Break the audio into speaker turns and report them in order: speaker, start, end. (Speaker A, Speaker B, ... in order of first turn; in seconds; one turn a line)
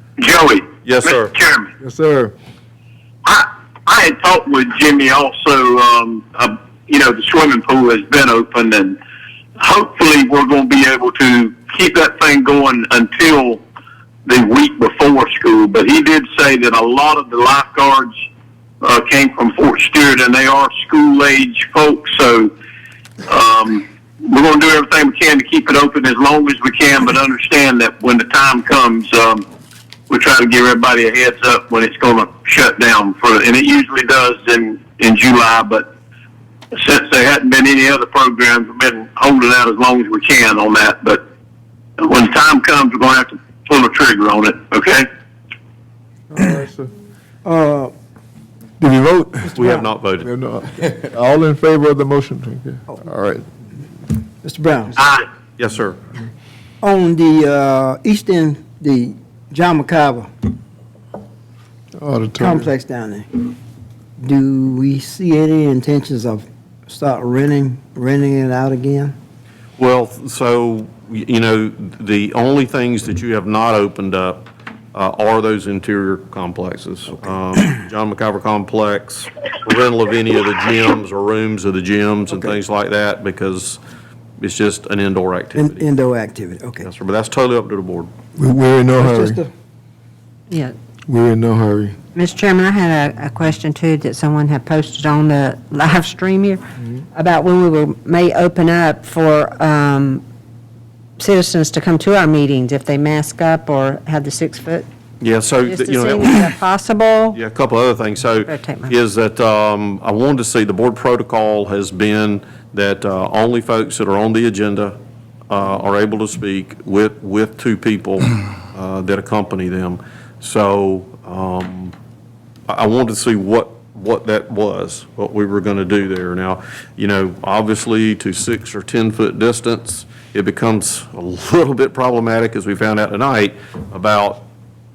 Speaker A: 0.2-1.7
Speaker B: 0.8-1.3
Speaker C: 1.8-2.3
Speaker A: 3.2-9.0
Speaker A: 9.6-13.6
Speaker A: 14.3-18.2
Speaker A: 18.8-22.5
Speaker A: 23.3-29.4
Speaker A: 30.1-35.9
Speaker A: 36.7-41.2
Speaker A: 42.0-45.1
Speaker C: 46.3-46.9
Speaker D: 47.5-47.9
Speaker C: 48.8-49.7
Speaker B: 49.5-50.3
Speaker C: 50.2-53.5
Speaker D: 54.4-55.0
Speaker A: 55.0-55.2
Speaker B: 55.6-56.0
Speaker D: 56.8-60.3
Speaker C: 62.0-62.7
Speaker D: 62.4-63.5
Speaker D: 64.2-69.2
Speaker B: 69.8-83.8
Speaker D: 82.3-82.5
Speaker B: 84.4-85.9
Speaker D: 85.5-86.9
Speaker B: 86.8-88.1
Speaker C: 88.4-89.4
Speaker D: 89.0-89.5
Speaker E: 90.5-90.8
Speaker C: 91.1-92.0
Speaker E: 92.2-96.6
Speaker E: 97.1-100.2
Speaker E: 101.2-104.9
Speaker B: 105.2-106.5
Speaker E: 105.7-107.4
Speaker B: 107.3-115.0
Speaker E: 108.4-109.0
Speaker B: 115.5-122.0
Speaker B: 122.7-134.4